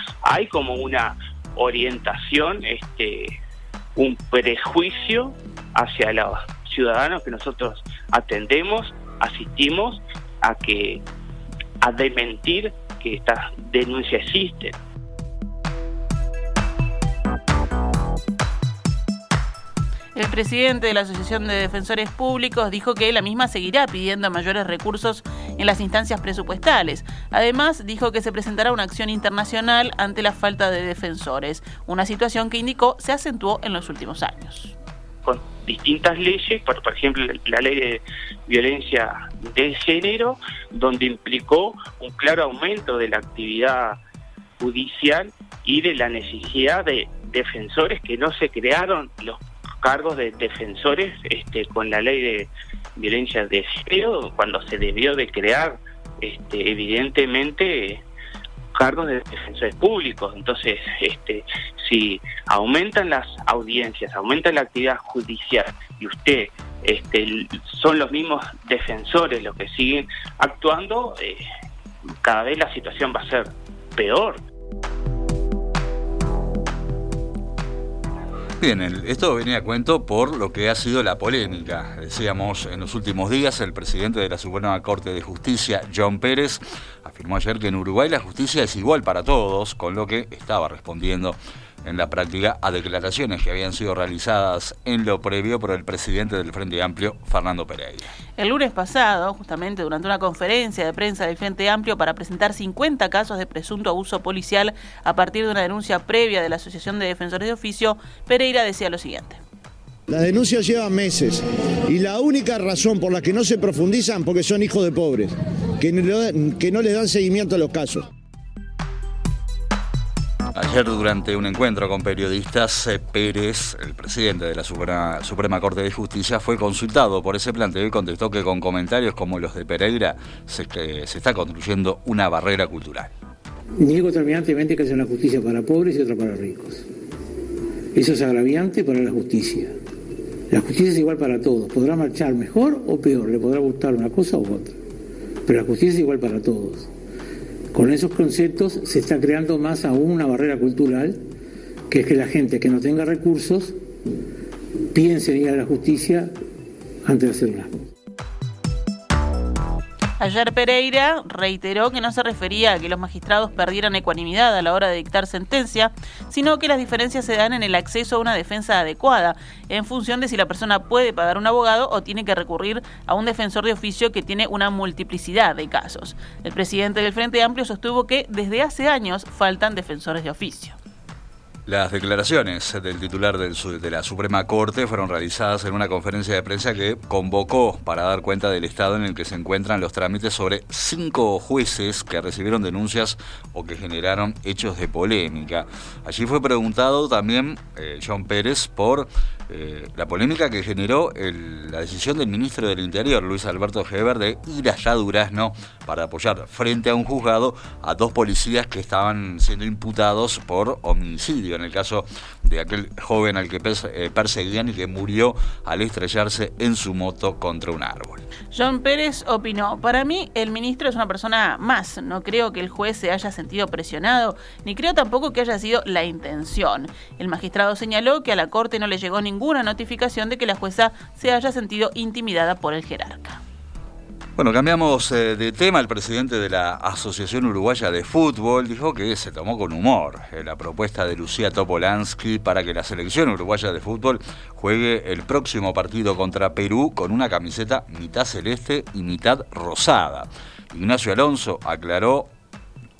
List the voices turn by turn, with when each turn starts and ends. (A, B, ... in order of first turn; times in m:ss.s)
0:00.2-0:03.3 A
0:04.0-0:11.0 A
0:11.8-0:14.7 A
0:20.1-0:34.7 B
0:35.2-0:44.0 A
0:44.6-0:58.0 A
0:58.7-1:11.4 A
1:12.2-1:14.4 A
1:18.6-1:38.1 C
1:38.4-1:49.4 B
1:50.1-1:58.1 D
2:00.5-2:13.1 C
2:13.8-2:16.9 E
2:17.9-2:19.7 E
2:20.5-2:24.8 E
2:25.4-2:26.9 E
2:27.7-2:31.2 E
2:31.9-2:33.8 E
2:34.9-2:36.3 E
2:37.0-2:37.8 E
2:40.2-3:00.8 B
3:01.7-3:38.2 C
3:38.5-3:53.4 B
3:54.4-4:12.3 C